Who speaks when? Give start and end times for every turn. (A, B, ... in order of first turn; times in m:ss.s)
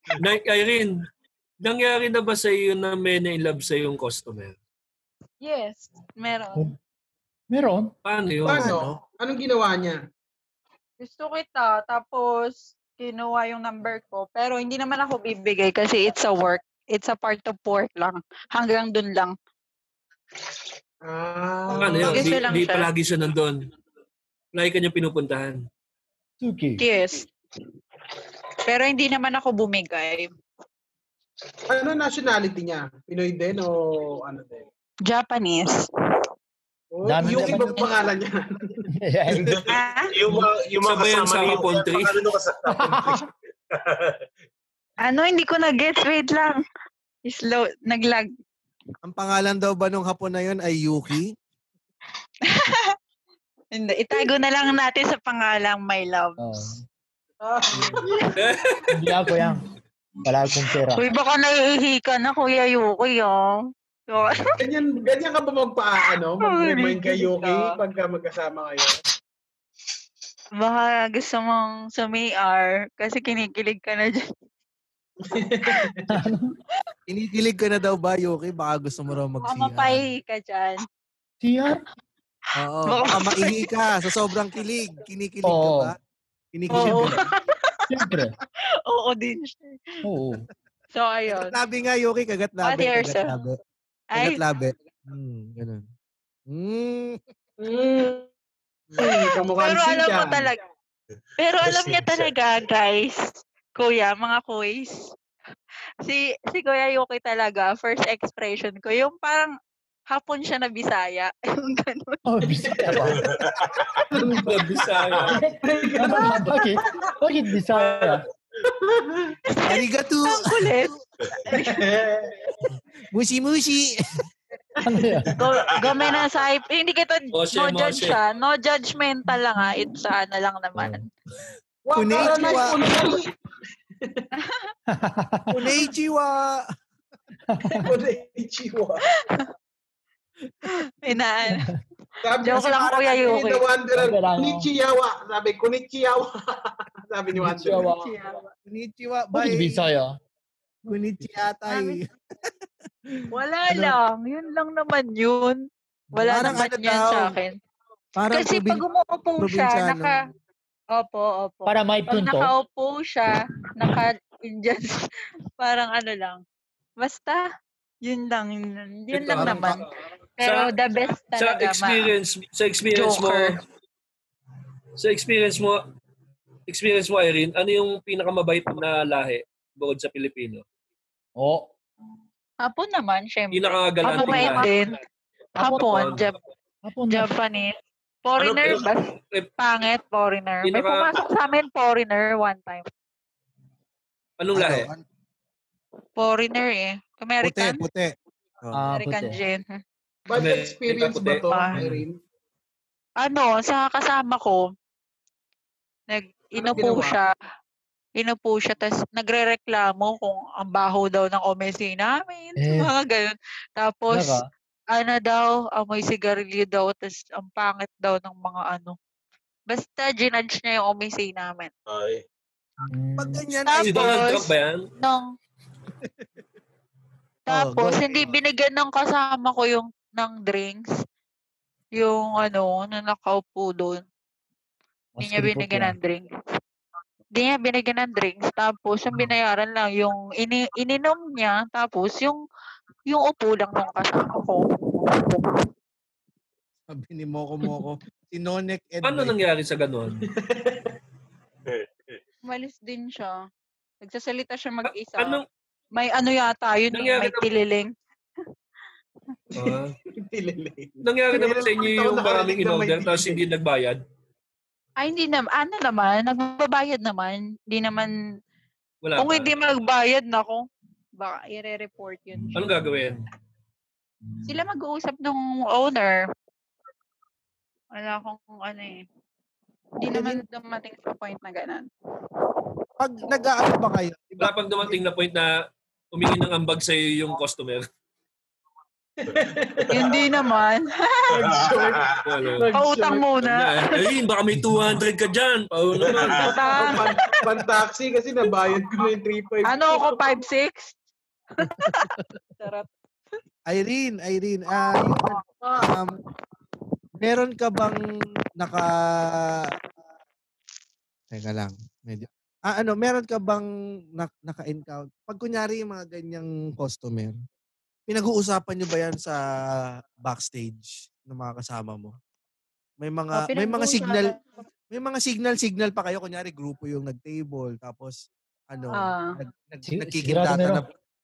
0:00.2-0:01.0 A
0:01.6-0:04.6 A
0:05.4-0:06.7 B
0:07.5-0:07.9 C
0:08.0-0:08.8 A
0:08.4-0:10.0 D
0:08.5-0:09.0 E
0:11.0-0:19.3 B
0:21.1-0:22.4 D
0:21.7-0:23.6 A
0:22.0-0:22.9 B
0:24.6-0:25.6 A
0:26.4-0:26.8 C
0:26.8-0:27.3 B
0:28.7-0:30.3 B
0:31.7-0:34.7 D
0:35.1-0:35.8 B
0:36.9-0:38.8 D
0:37.0-0:37.8 C
0:37.2-0:37.8 E
0:38.9-0:39.6 C
0:39.3-0:43.2 F
0:39.7-0:40.1 B
0:40.8-0:42.2 A
0:42.7-0:43.2 C
0:43.8-0:44.2 F
0:45.0-0:46.6 B
0:47.3-0:48.3 B
0:49.0-0:51.3 E
0:52.5-0:52.9 B
0:53.7-0:56.4 B
0:56.4-0:56.8 C
0:57.4-0:58.2 D
0:58.4-0:58.9 A
0:58.9-0:59.7 C
1:00.2-1:01.1 C
1:00.9-1:04.6 B
1:04.6-1:09.0 D
1:06.4-1:07.8 B
1:10.6-1:14.2 B
1:15.2-1:16.1 D
1:16.1-1:16.5 C
1:17.1-1:20.0 E
1:19.4-1:20.8 B
1:21.4-1:21.8 C
1:22.6-1:26.0 E
1:22.9-1:24.1 B
1:25.4-1:25.9 C
1:26.6-1:27.2 E
1:26.7-1:28.1 B
1:27.9-1:28.4 C
1:28.9-1:29.8 B
1:30.0-1:30.5 C
1:30.9-1:31.6 B
1:31.3-1:33.6 E
1:32.6-1:33.3 B
1:34.1-1:34.4 B
1:34.2-1:35.8 E
1:36.5-1:37.2 E
1:37.6-1:38.3 D
1:39.0-1:40.5 D
1:39.0-1:40.6 B
1:41.4-1:43.2 B
1:41.6-1:42.3 F
1:43.8-1:45.1 B
1:46.0-1:49.5 B
1:50.1-1:52.2 B
1:52.3-1:53.3 C
1:52.6-1:53.2 D
1:53.2-1:54.0 F
1:54.1-1:54.8 D
1:54.4-1:55.3 A
1:55.3-1:58.2 C
1:55.6-1:57.1 D
1:58.7-1:59.3 D
1:59.6-2:00.9 B
1:59.7-2:01.0 E
2:01.5-2:01.9 B
2:01.5-2:02.3 D
2:03.1-2:04.2 E
2:04.8-2:05.3 C
2:05.4-2:11.0 B
2:05.5-2:06.3 F
2:07.3-2:08.2 A
2:10.8-2:11.0 C
2:11.8-2:13.3 D
2:12.0-2:12.9 E
2:12.2-2:13.2 B
2:14.0-2:14.3 D
2:14.4-2:14.7 B
2:14.9-2:15.7 C
2:15.5-2:16.7 E
2:17.5-2:17.9 C
2:17.6-2:19.0 D
2:19.2-2:19.5 B
2:20.8-2:21.7 B
2:21.5-2:21.8 C
2:22.2-2:27.9 D
2:22.4-2:23.6 B
2:24.0-2:24.7 C
2:27.4-2:28.1 C
2:27.8-2:28.5 B
2:28.7-2:29.8 E
2:29.3-2:30.2 C
2:30.9-2:32.5 E
2:31.7-2:32.0 B
2:33.1-2:33.9 E
2:33.3-2:35.6 B
2:36.2-2:37.5 B
2:36.2-2:37.4 E
2:38.2-2:38.8 E
2:38.3-2:40.2 B
2:39.4-2:40.2 E
2:40.9-2:46.4 B
2:41.7-2:42.5 C
2:47.0-2:47.5 B
2:48.0-2:49.8 B
2:49.1-2:49.8 A
2:49.3-2:49.8 E
2:50.4-2:52.1 B
2:50.4-2:50.7 A
2:51.3-2:53.6 A
2:52.9-2:53.6 B
2:55.0-2:55.8 A
2:56.7-3:00.6 A
3:01.4-3:01.7 C
3:02.6-3:05.0 B
3:03.5-3:04.8 A
3:04.1-3:04.6 C
3:05.6-3:06.4 B
3:05.6-3:06.2 C
3:05.9-3:06.2 A
3:06.9-3:07.3 C
3:07.1-3:07.7 B
3:08.3-3:12.9 B
3:08.4-3:08.9 F
3:10.6-3:11.1 A
3:14.4-3:14.9 A
3:14.5-3:15.0 E
3:16.2-3:17.8 B
3:17.4-3:18.8 E
3:18.7-3:19.4 C
3:18.9-3:19.8 B
3:20.3-3:22.2 D
3:20.3-3:21.5 A
3:23.2-3:24.6 B
3:26.1-3:27.3 B
3:26.6-3:27.2 D
3:28.2-3:34.4 B
3:32.6-3:32.9 C
3:34.1-3:34.5 C
3:34.9-3:39.0 B
3:39.7-3:41.7 B
3:41.9-3:42.2 F
3:42.8-3:43.4 C
3:43.2-3:44.3 E
3:43.6-3:45.3 B
3:43.8-3:44.9 A
3:47.5-3:48.3 E
3:47.5-3:50.9 B
3:52.0-3:54.0 B
3:55.2-3:56.0 C
3:55.2-3:56.3 B
3:57.4-4:02.4 B
4:03.1-4:05.6 B
4:06.9-4:09.4 E
4:09.0-4:10.2 A
4:10.3-4:10.9 D
4:11.7-4:12.2 F
4:12.4-4:13.4 B
4:14.0-4:15.4 B
4:14.9-4:15.4 A
4:16.0-4:17.9 B
4:16.9-4:17.5 A
4:19.6-4:23.4 D
4:19.6-4:19.9 A
4:21.0-4:24.0 A
4:25.0-4:28.1 B
4:29.0-4:29.5 A
4:29.2-4:30.6 B
4:31.2-4:32.6 B
4:32.4-4:33.0 C
4:32.6-4:33.2 A
4:34.5-4:36.2 B
4:38.0-4:39.0 B
4:40.0-4:41.9 B
4:40.1-4:40.4 E
4:43.0-4:44.9 E
4:44.4-4:45.5 A
4:46.1-4:47.9 A
4:49.2-4:50.2 D
4:49.9-4:51.5 B
4:51.3-4:53.2 D
4:51.4-4:52.3 F
4:52.2-4:52.7 A
4:52.8-4:53.8 B
4:53.4-4:56.5 A
4:56.1-4:56.4 F
4:56.2-5:00.4 D
4:56.3-4:57.1 B
4:59.7-5:01.0 B
5:01.6-5:02.1 B
5:02.6-5:02.9 B
5:03.7-5:06.2 E
5:04.8-5:05.4 B
5:07.2-5:09.7 E
5:11.3-5:17.4 E
5:18.1-5:19.4 E
5:20.2-5:22.2 E
5:23.0-5:24.4 E
5:23.3-5:24.4 B
5:24.9-5:28.2 E
5:28.7-5:30.9 E
5:29.0-5:29.4 B
5:29.8-5:30.8 C